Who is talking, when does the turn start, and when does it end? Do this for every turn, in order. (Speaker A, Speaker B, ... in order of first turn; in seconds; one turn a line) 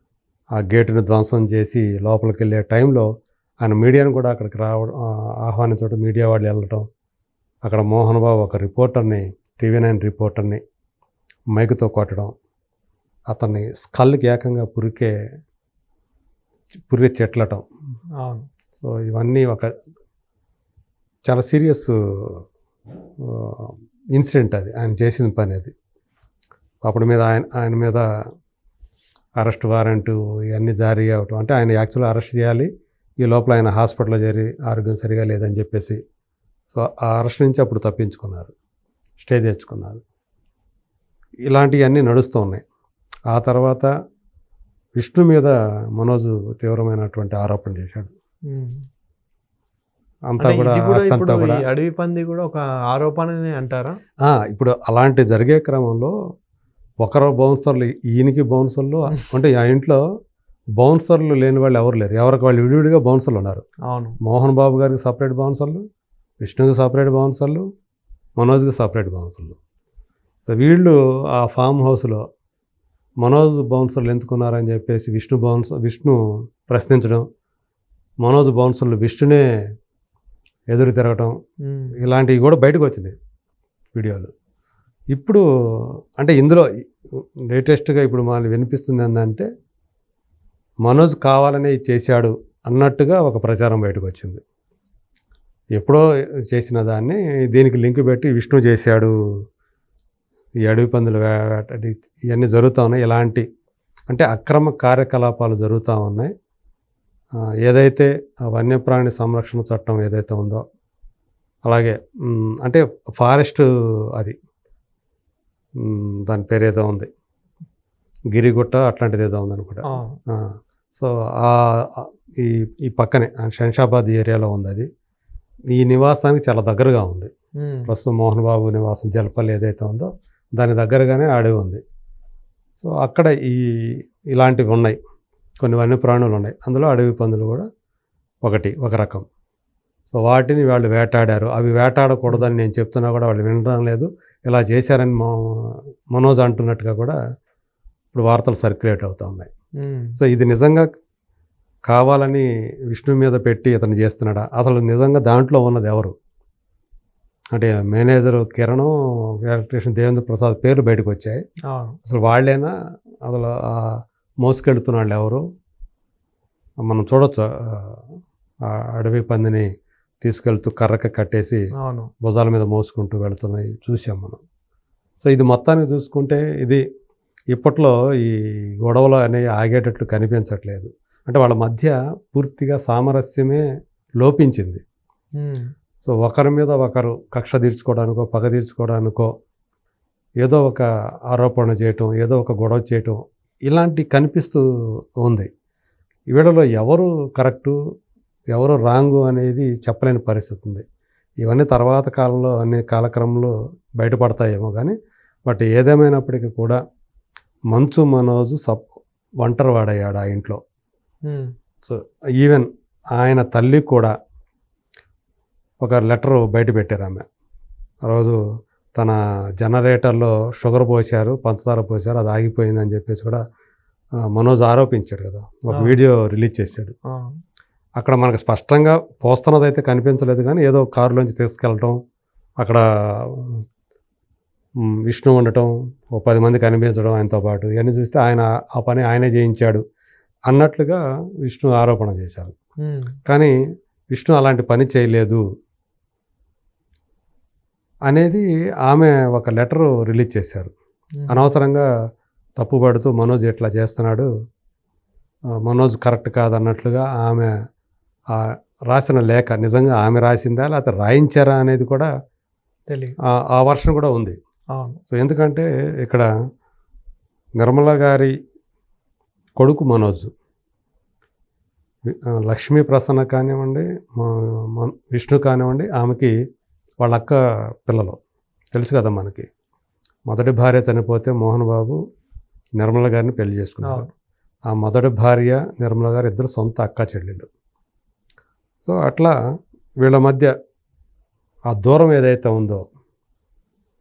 Speaker A: 0.6-3.1
Speaker A: 3.6-6.8
Speaker A: 7.6-10.6
Speaker A: 11.5-12.3
Speaker A: 13.3-15.1
Speaker A: 16.9-17.6
Speaker B: 18.2-18.5
Speaker A: 18.8-19.7
Speaker A: 21.2-22.4
Speaker A: 23.2-25.7
Speaker A: 26.8-28.0
Speaker A: 29.4-32.7
Speaker A: 33.2-36.0
Speaker A: 36.7-38.5
Speaker A: 39.2-40.0
Speaker A: 41.5-42.6
Speaker A: 43.3-43.9
Speaker A: 45.0-48.1
Speaker B: 48.5-48.8
Speaker A: 50.3-51.6
Speaker B: 50.4-54.0
Speaker A: 54.2-56.1
Speaker A: 57.0-60.0
Speaker A: 60.8-63.6
Speaker B: 63.9-64.2
Speaker A: 64.2-65.8
Speaker A: 66.4-67.7
Speaker A: 68.4-69.6
Speaker A: 70.5-72.2
Speaker A: 73.2-77.2
Speaker A: 78.2-79.5
Speaker A: 80.7-81.3
Speaker B: 81.7-82.0
Speaker A: 82.0-83.1
Speaker A: 83.9-84.3
Speaker A: 85.1-86.7
Speaker A: 87.5-89.5
Speaker A: 90.8-94.4
Speaker A: 95.8-99.1
Speaker A: 100.7-103.4
Speaker A: 104.1-106.3
Speaker A: 107.6-110.6
Speaker A: 111.7-114.3
Speaker A: 115.8-117.1
Speaker A: 118.3-124.9
Speaker B: 119.9-120.2
Speaker A: 125.7-127.3
Speaker B: 127.6-127.9
Speaker A: 127.9-131.8
Speaker A: 132.8-133.6
Speaker A: 134.3-135.0
Speaker A: 135.6-137.7
Speaker A: 138.4-139.2
Speaker A: 140.1-147.2
Speaker A: 148.1-149.5
Speaker B: 149.8-150.2
Speaker A: 150.2-150.9
Speaker A: 151.9-156.1
Speaker A: 157.5-161.4
Speaker B: 161.7-162.0
Speaker A: 162.1-162.7
Speaker A: 163.2-165.4
Speaker A: 166.8-168.0
Speaker A: 168.7-169.7
Speaker A: 170.2-171.6
Speaker B: 171.8-172.1
Speaker A: 172.2-174.4
Speaker A: 175.2-176.8
Speaker A: 177.5-183.6
Speaker A: 184.2-184.8
Speaker B: 185.4-185.7
Speaker A: 186.0-189.3
Speaker A: 190.4-194.6
Speaker A: 195.2-195.5
Speaker A: 196.3-197.8
Speaker A: 198.5-200.8
Speaker A: 201.4-206.8
Speaker A: 207.7-208.8
Speaker A: 209.4-210.6
Speaker A: 211.8-214.1
Speaker A: 215.8-217.2
Speaker A: 218.1-218.4
Speaker A: 218.9-223.4
Speaker A: 224.3-226.9
Speaker A: 228.0-232.0
Speaker A: 232.6-233.6
Speaker A: 235.1-239.8
Speaker A: 240.5-242.5
Speaker B: 242.8-243.1
Speaker A: 243.3-243.5
Speaker A: 244.1-245.4
Speaker A: 248.1-250.7
Speaker B: 251.2-251.4
Speaker A: 251.3-251.9
Speaker A: 252.6-254.3
Speaker A: 255.6-257.5
Speaker A: 258.3-262.1
Speaker B: 262.9-263.1
Speaker A: 263.3-264.4
Speaker A: 265.1-266.3
Speaker A: 267.6-268.3
Speaker A: 269.6-270.3
Speaker A: 272.1-276.3
Speaker A: 277.0-278.2
Speaker A: 278.7-279.5
Speaker A: 280.3-282.0
Speaker A: 282.8-284.1
Speaker B: 283.8-284.1
Speaker A: 284.7-287.5
Speaker A: 288.8-289.3
Speaker A: 290.0-290.5
Speaker A: 291.7-292.8